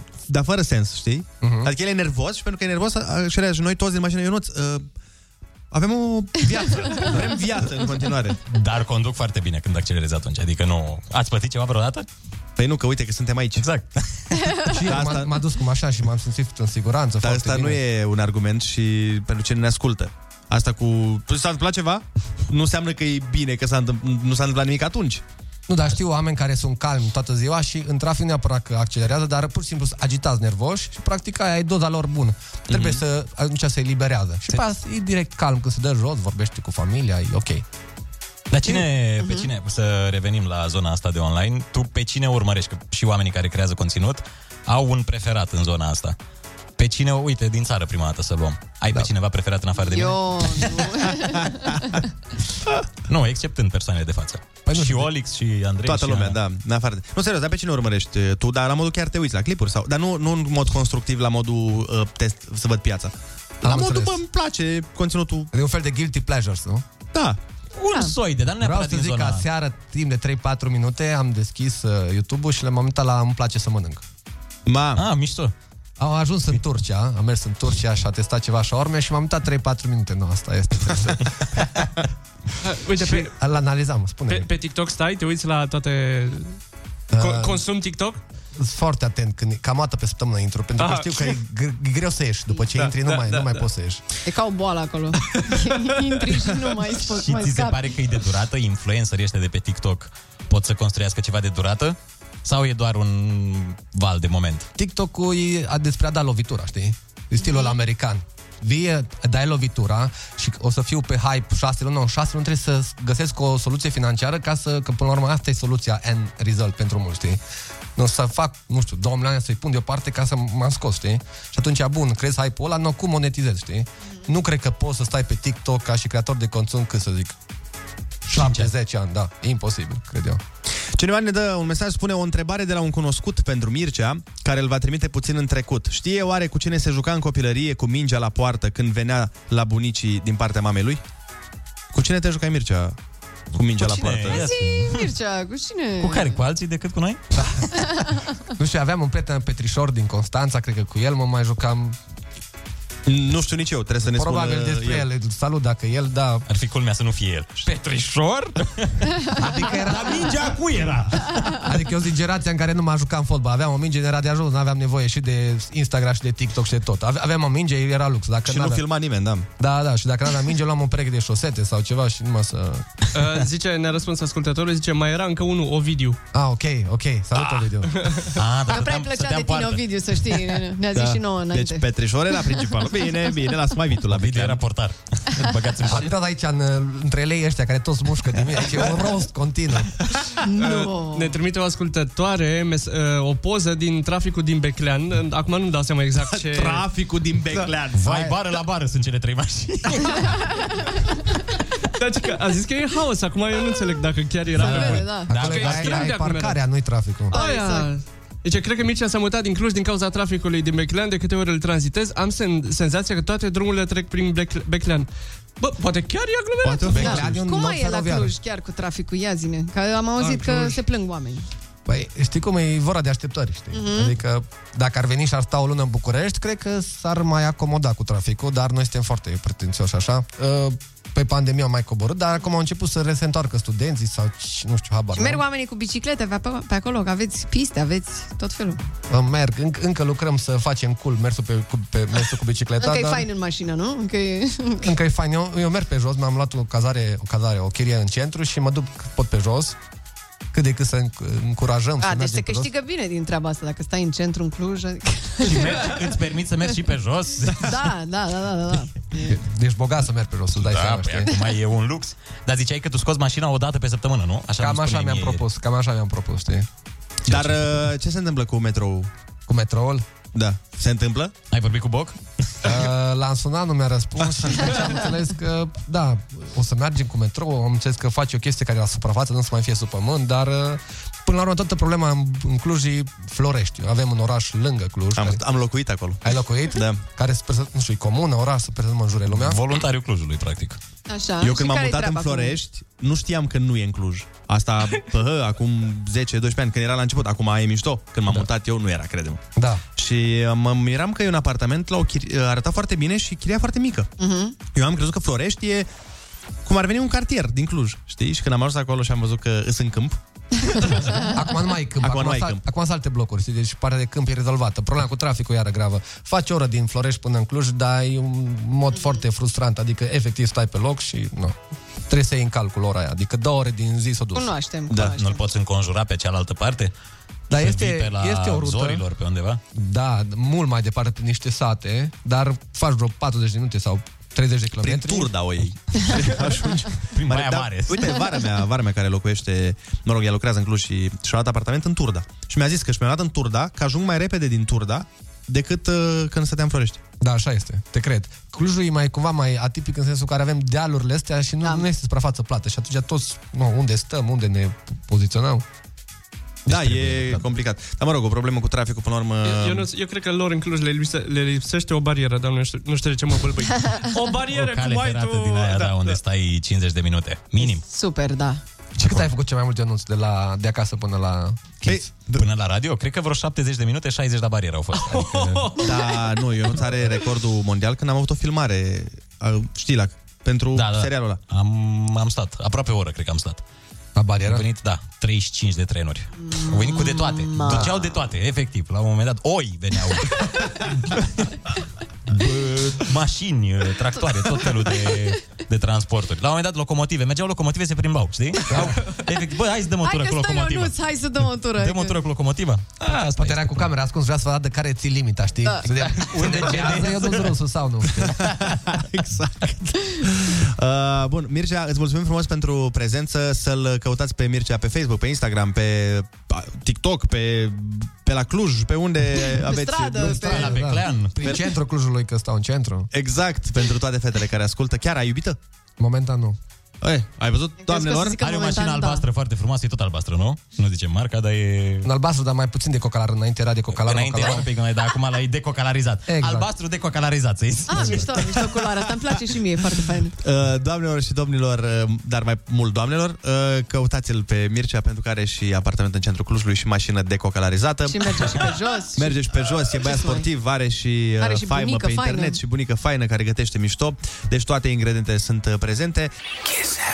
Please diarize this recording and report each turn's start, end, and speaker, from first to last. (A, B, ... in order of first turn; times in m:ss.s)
0:00.3-0:04.9 A
0:01.4-0:01.7 B
0:05.7-0:08.4 A
0:08.5-0:12.1 C
0:12.6-0:13.6 A
0:13.6-0:14.8 C
0:14.3-0:14.8 D
0:14.8-0:17.8 B
0:14.9-0:15.4 A
0:17.2-0:25.2 A
0:25.7-0:37.6 B
0:32.7-0:33.0 A
0:38.5-0:46.2 C
0:39.2-0:39.5 D
0:46.8-0:50.9 C
0:49.8-0:52.0 D
0:53.1-0:56.4 C
0:54.7-0:55.1 B
0:55.8-1:05.5 A
1:03.6-1:04.2 B
1:05.5-1:06.8 B
1:07.1-1:07.4 A
1:07.8-1:09.4 C
1:08.6-1:14.0 B
1:14.7-1:15.0 A
1:15.0-1:15.5 C
1:16.0-1:21.7 B
1:22.6-1:23.3 E
1:23.0-1:24.5 B
1:24.3-1:26.6 E
1:27.1-1:27.6 B
1:27.2-1:28.2 E
1:28.6-1:34.0 B
1:30.8-1:31.2 E
1:32.7-1:33.6 E
1:34.2-1:37.8 D
1:35.4-1:36.0 E
1:37.1-1:44.7 C
1:44.8-1:57.4 B
1:47.4-1:47.7 D
1:58.0-2:07.3 B
2:08.3-2:10.4 B
2:08.3-2:08.7 C
2:10.9-2:21.0 A
2:21.9-2:23.0 A
2:23.5-2:24.5 A
2:23.8-2:25.1 C
2:24.2-2:26.4 D
2:26.0-2:27.2 C
2:27.4-2:27.7 B
2:27.7-2:28.2 D
2:28.6-2:32.0 B
2:33.1-2:35.1 A
2:34.0-2:36.4 B
2:36.5-2:38.0 C
2:37.6-2:38.5 B
2:38.7-2:41.7 C
2:39.3-2:40.6 B
2:41.6-2:48.8 B
2:48.5-2:49.5 A
2:49.6-2:52.9 B
2:53.1-2:56.2 E
2:56.3-2:58.0 B
2:57.9-2:58.3 E
2:58.2-2:59.8 C
2:58.7-3:01.9 D
3:00.9-3:04.6 A
3:04.1-3:06.1 C
3:05.9-3:10.0 B
3:10.4-3:11.4 D
3:10.6-3:16.9 E
3:16.3-3:18.1 A
3:17.9-3:20.4 C
3:18.1-3:18.4 B
3:22.0-3:26.6 E
3:24.6-3:26.2 C
3:24.6-3:25.4 D
3:25.3-3:27.4 B
3:27.3-3:35.1 E
3:27.3-3:27.9 D
3:35.6-3:37.3 E
3:36.6-3:37.3 A
3:36.9-3:38.4 B
3:37.0-3:41.4 D
3:40.2-3:40.8 E
3:41.9-3:55.4 B
3:43.7-3:44.1 D
3:55.2-3:58.8 D
3:59.1-4:03.3 B
4:02.8-4:04.9 D
4:04.8-4:09.8 B
4:10.5-4:12.7 B
4:12.0-4:15.9 D
4:15.4-4:17.8 C
4:17.6-4:19.3 D
4:19.2-4:21.3 B
4:20.6-4:25.4 C
4:24.6-4:26.7 B
4:27.3-4:29.1 A
4:27.3-4:27.9 C
4:29.5-4:30.0 B
4:30.3-4:31.3 A
4:31.5-4:32.7 C
4:32.6-4:45.4 B
4:45.2-4:46.2 A
4:46.2-4:49.6 B
4:46.7-4:47.0 A
4:49.3-4:50.8 C
4:51.1-4:52.6 D
4:51.4-4:59.4 A
4:59.6-4:59.8 B
5:00.0-5:04.1 A
5:04.2-5:04.6 D
5:04.7-5:05.9 A
5:06.6-5:10.2 A
5:10.7-5:11.3 D
5:11.3-5:21.6 B
5:12.0-5:12.6 A
5:22.1-5:24.5 B
5:24.4-5:25.4 D
5:24.9-5:26.9 C
5:27.5-5:29.0 B
5:27.5-5:29.6 C
5:29.7-5:35.5 B
5:34.8-5:47.0 A
5:37.1-5:38.2 C
5:47.2-5:55.6 B
5:56.7-5:57.4 C
5:56.7-5:59.9 A
5:59.4-6:06.2 E
6:04.4-6:07.8 C
6:07.6-6:08.6 D
6:09.0-6:12.0 B
6:09.0-6:09.3 C
6:11.8-6:15.8 C
6:11.9-6:12.4 A
6:15.1-6:16.1 E
6:15.8-6:21.4 A
6:20.7-6:23.6 C
6:24.2-6:24.6 B
6:24.4-6:31.5 C
6:26.4-6:28.0 D
6:32.3-6:40.9 C
6:40.0-6:42.2 D
6:41.8-6:43.9 C
6:43.0-6:48.4 B
6:46.0-6:47.6 C
6:48.4-7:00.7 A
6:59.4-7:00.8 D
7:00.2-7:01.6 C
7:00.5-7:03.1 B
7:03.1-7:05.6 A
7:06.0-7:06.6 B
7:07.0-7:08.4 A
7:07.8-7:09.2 D
7:08.4-7:12.1 C
7:12.0-7:14.7 B
7:13.9-7:18.8 C
7:16.3-7:16.7 B
7:17.9-7:20.4 D
7:20.4-7:36.3 A
7:28.1-7:30.5 D
7:31.4-7:32.6 D